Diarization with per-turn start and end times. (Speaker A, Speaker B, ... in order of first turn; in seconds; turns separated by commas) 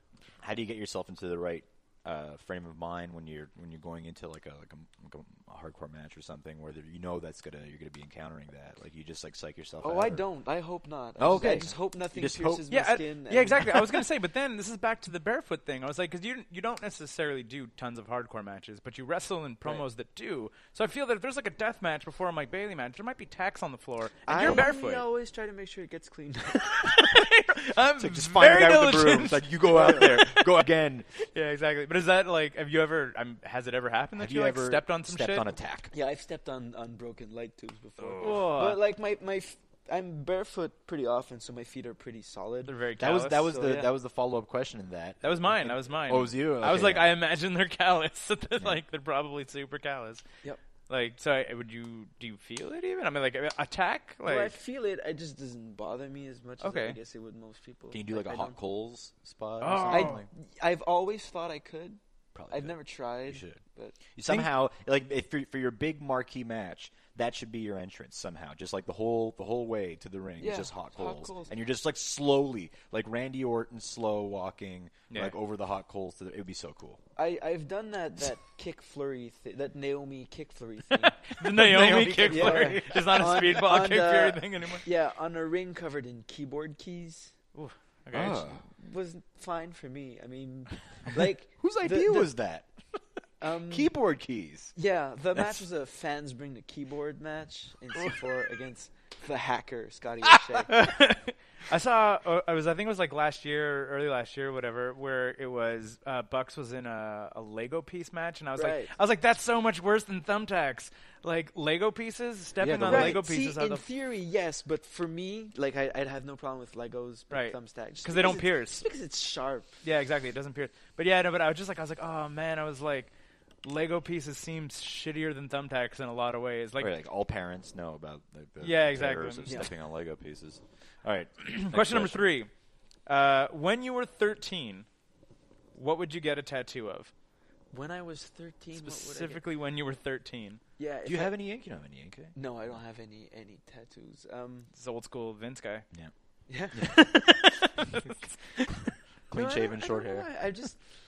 Speaker A: 0.4-10.2, Speaker B: 9.8-13.8, Speaker A: 11.2-12.7, Speaker C: 12.7-25.0, Speaker B: 24.3-27.0, Speaker A: 24.4-24.7, Speaker C: 26.6-30.6, Speaker A: 28.0-31.1, Speaker B: 29.7-30.0, Speaker C: 31.3-35.5, Speaker A: 34.1-35.9, Speaker B: 35.9-42.8, Speaker A: 38.0-38.5, Speaker C: 38.2-38.8, Speaker C: 42.7-43.5, Speaker A: 43.0-47.1, Speaker B: 43.4-43.9, Speaker C: 45.2-50.2, Speaker C: 50.9-54.6, Speaker B: 54.2-58.6, Speaker C: 56.6-57.0, Speaker A: 57.9-60.3, Speaker C: 59.6-60.2, Speaker B: 59.9-64.0, Speaker A: 62.4-63.6, Speaker A: 64.1-77.0, Speaker B: 70.4-71.5, Speaker C: 75.1-75.4, Speaker B: 77.2-81.3, Speaker C: 81.2-84.9, Speaker A: 81.4-83.3, Speaker B: 82.2-87.3, Speaker C: 87.5-88.5, Speaker A: 88.1-88.7, Speaker B: 88.6-92.3, Speaker A: 91.6-92.7, Speaker B: 93.4-93.9, Speaker A: 93.7-94.7, Speaker B: 94.8-100.8, Speaker C: 100.6-113.9, Speaker B: 108.6-108.9, Speaker A: 112.6-113.2, Speaker B: 112.8-119.7, Speaker C: 117.3-118.8, Speaker C: 119.8-123.1, Speaker C: 123.6-126.9, Speaker A: 126.8-132.3, Speaker C: 128.6-129.7, Speaker C: 131.5-132.5, Speaker C: 133.1-134.9, Speaker C: 135.8-137.1, Speaker B: 137.7-139.4, Speaker C: 138.7-140.6, Speaker B: 140.8-141.4, Speaker A: 141.1-142.3, Speaker B: 142.3-144.7, Speaker C: 144.7-145.9, Speaker B: 146.5-147.0, Speaker A: 146.7-147.1, Speaker C: 146.8-148.8, Speaker A: 149.3-150.3, Speaker B: 149.3-150.8